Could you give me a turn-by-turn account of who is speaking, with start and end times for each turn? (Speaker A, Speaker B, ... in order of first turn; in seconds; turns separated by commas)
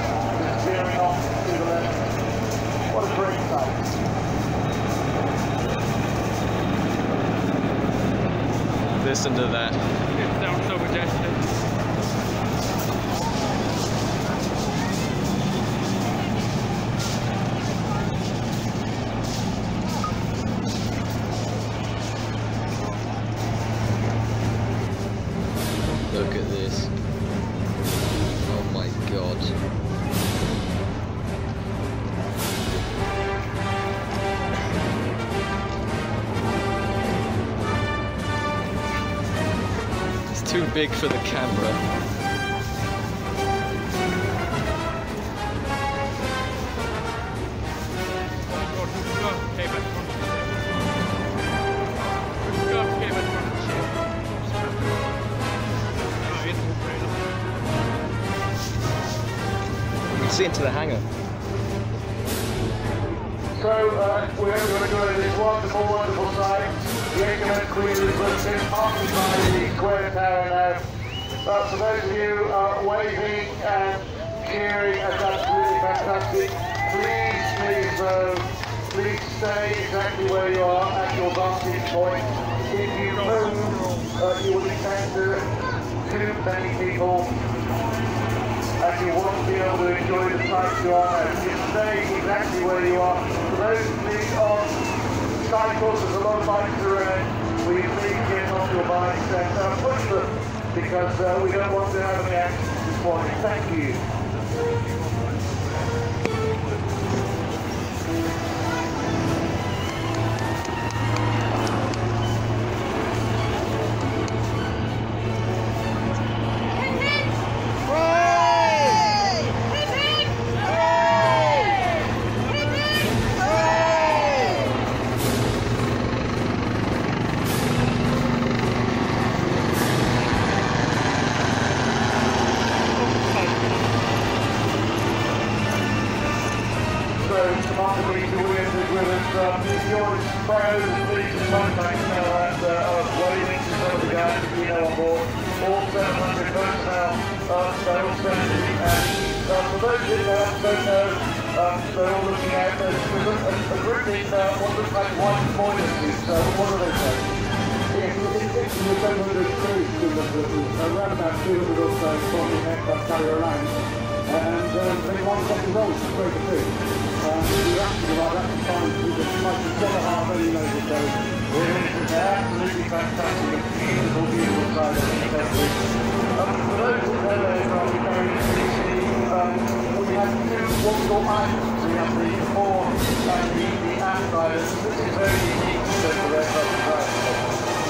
Speaker A: 0.3-2.1, Speaker A: 2.9-3.9, Speaker B: 9.0-9.8, Speaker C: 10.6-11.0, Speaker B: 26.1-26.9, Speaker B: 28.4-29.6, Speaker B: 40.3-41.8, Speaker C: 52.7-53.9, Speaker C: 56.5-56.8, Speaker B: 60.1-61.0, Speaker A: 63.5-70.8, Speaker A: 71.4-85.5, Speaker A: 86.0-87.3, Speaker A: 88.8-94.8, Speaker A: 95.3-104.0, Speaker A: 137.2-157.3, Speaker D: 157.9-162.6, Speaker A: 158.6-160.3, Speaker A: 161.2-163.3, Speaker D: 163.2-163.7, Speaker A: 164.3-166.7, Speaker D: 164.7-166.5, Speaker A: 167.2-169.1, Speaker D: 167.4-171.1, Speaker A: 170.8-175.8, Speaker A: 176.3-187.4